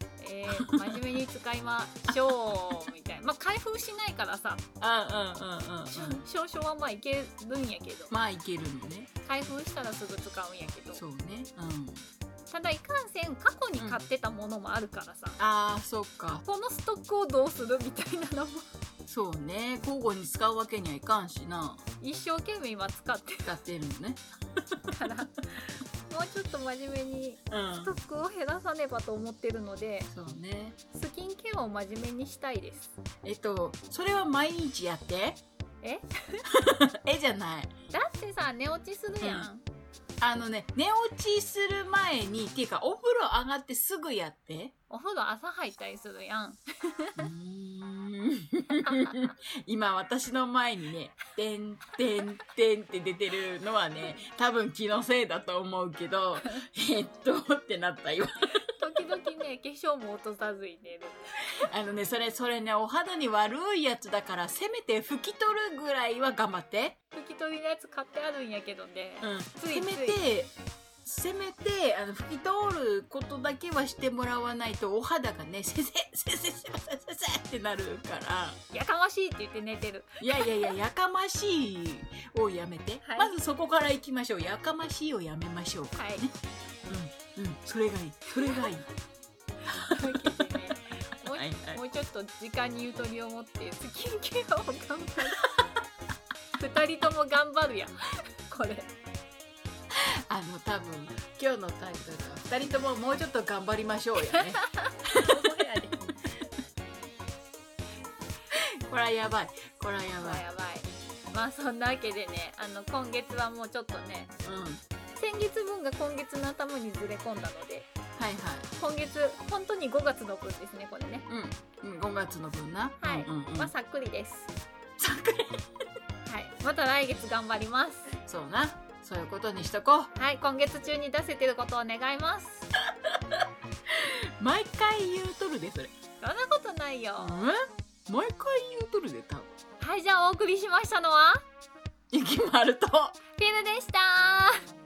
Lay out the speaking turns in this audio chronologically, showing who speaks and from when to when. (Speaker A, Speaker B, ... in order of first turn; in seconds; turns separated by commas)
Speaker A: 0.2-4.6, Speaker B: 0.5-1.0, Speaker B: 4.8-6.2, Speaker A: 5.9-8.1, Speaker B: 8.1-9.1, Speaker A: 9.2-11.0, Speaker B: 10.9-12.1, Speaker A: 12.5-15.4, Speaker B: 15.4-16.4, Speaker A: 16.4-18.7, Speaker B: 19.1-21.9, Speaker A: 22.0-23.5, Speaker B: 23.4-24.9, Speaker A: 24.9-30.1, Speaker B: 27.5-27.9, Speaker B: 30.1-30.8, Speaker A: 30.9-32.9, Speaker B: 33.2-35.4, Speaker A: 35.8-36.4, Speaker B: 36.5-37.7, Speaker A: 37.9-39.6, Speaker B: 39.2-39.5, Speaker B: 40.2-44.7, Speaker A: 44.9-47.2, Speaker B: 47.2-58.6, Speaker A: 48.9-49.2, Speaker A: 58.5-61.2, Speaker B: 61.6-67.0, Speaker A: 67.1-70.2, Speaker B: 69.2-70.5, Speaker B: 71.0-78.6, Speaker A: 78.7-80.7, Speaker B: 80.2-86.3, Speaker A: 83.0-83.3, Speaker A: 85.9-86.2, Speaker B: 86.9-88.9, Speaker A: 89.8-95.6, Speaker B: 91.3-91.8, Speaker A: 96.6-98.9, Speaker B: 99.9-105.3, Speaker A: 104.3-106.3, Speaker B: 108.5-110.4, Speaker A: 110.2-114.3, Speaker B: 114.4-114.8, Speaker A: 115.2-117.9, Speaker B: 118.2-118.7, Speaker A: 118.8-121.3, Speaker B: 121.3-123.7, Speaker A: 123.0-124.5, Speaker B: 125.0-125.6, Speaker A: 126.2-128.1, Speaker B: 128.2-130.1, Speaker A: 130.1-132.7, Speaker B: 133.0-133.4, Speaker B: 134.0-135.9, Speaker A: 136.2-137.4, Speaker B: 137.2-139.5, Speaker A: 139.8-141.4, Speaker B: 142.1-143.2, Speaker A: 143.4-144.6